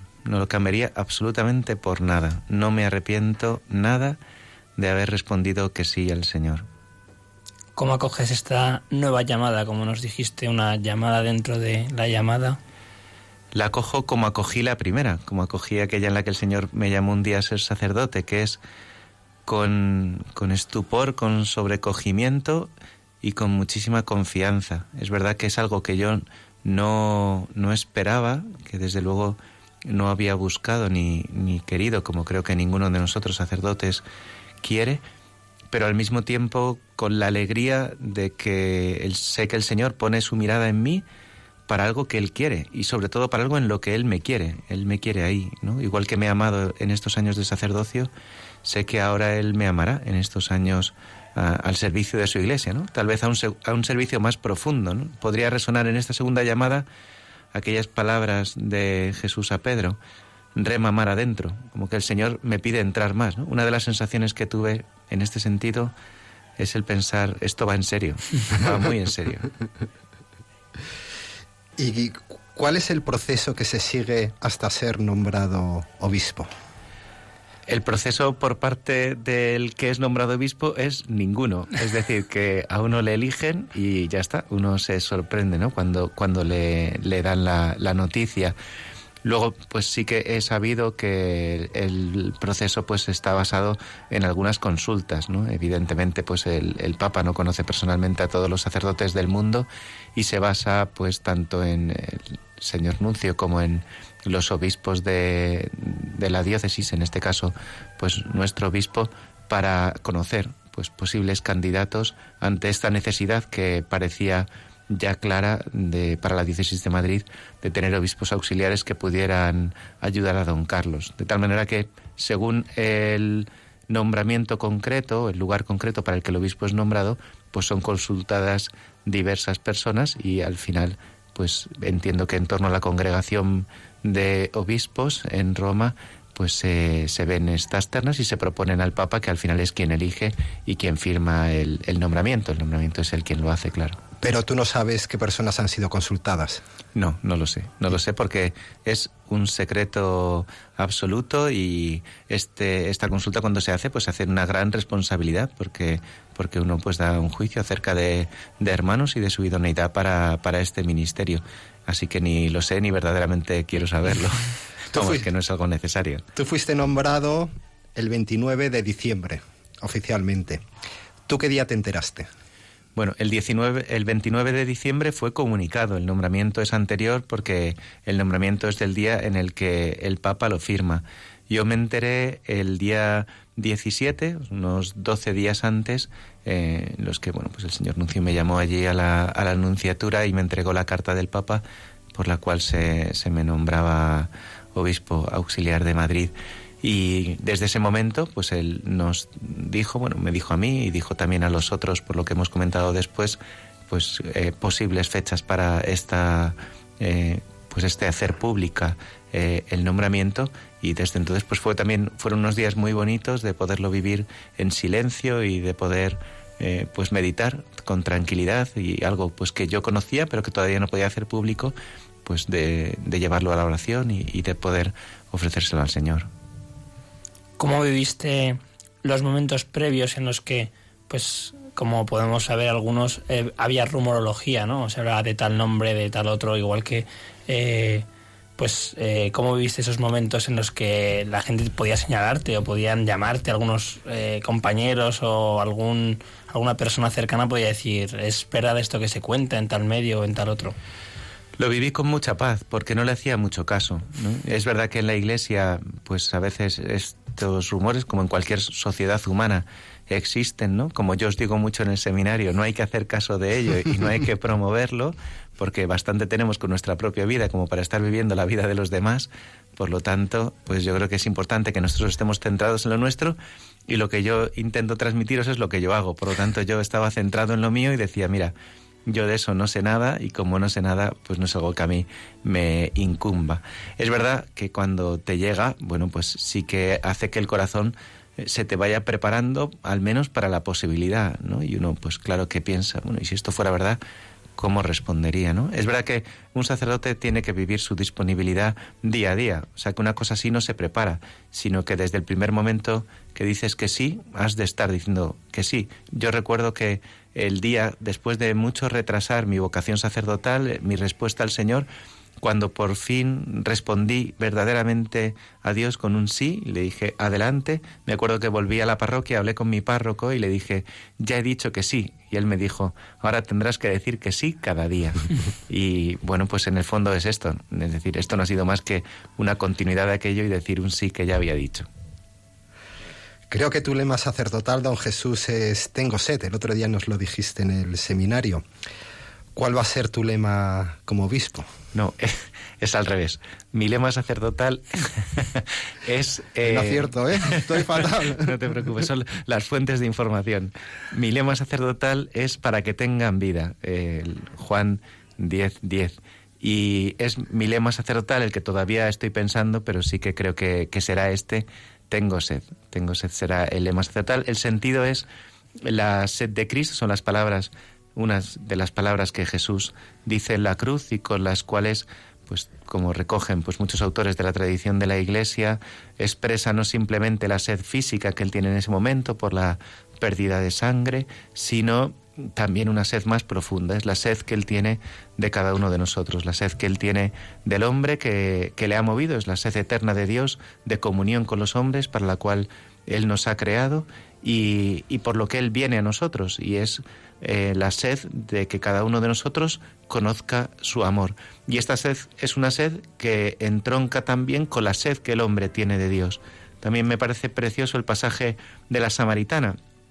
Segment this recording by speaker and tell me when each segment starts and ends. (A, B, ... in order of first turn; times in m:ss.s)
0:00.2-0:04.2 A
0:04.8-0:06.6 A
0:07.8-0:12.6 B
0:13.5-0:18.6 A
0:19.4-0:22.7 A
0:23.2-0:34.0 A
0:34.6-0:35.0 A
0:35.7-0:41.0 A
0:41.7-0:48.1 A
0:48.6-0:56.8 A
0:57.5-1:00.0 A
1:00.5-1:05.9 A
1:06.6-1:09.5 A
1:11.8-1:16.5 C
1:17.7-1:28.5 A
1:29.2-2:24.0 A
2:24.2-2:26.6 C
2:26.9-2:46.2 A
2:44.9-2:45.2 C
2:46.3-2:50.6 C
2:51.3-2:52.3 C
2:53.0-3:11.6 A
3:12.1-3:46.3 A
3:47.6-3:58.0 B
3:58.6-4:10.8 B
4:11.6-4:38.5 A
4:39.0-4:54.0 A
4:54.6-5:11.9 A
5:12.4-5:31.9 A
5:33.5-5:38.6 C
5:39.5-5:41.7 C
5:41.9-6:05.2 A
5:46.6-5:48.5 C
6:05.8-6:49.8 A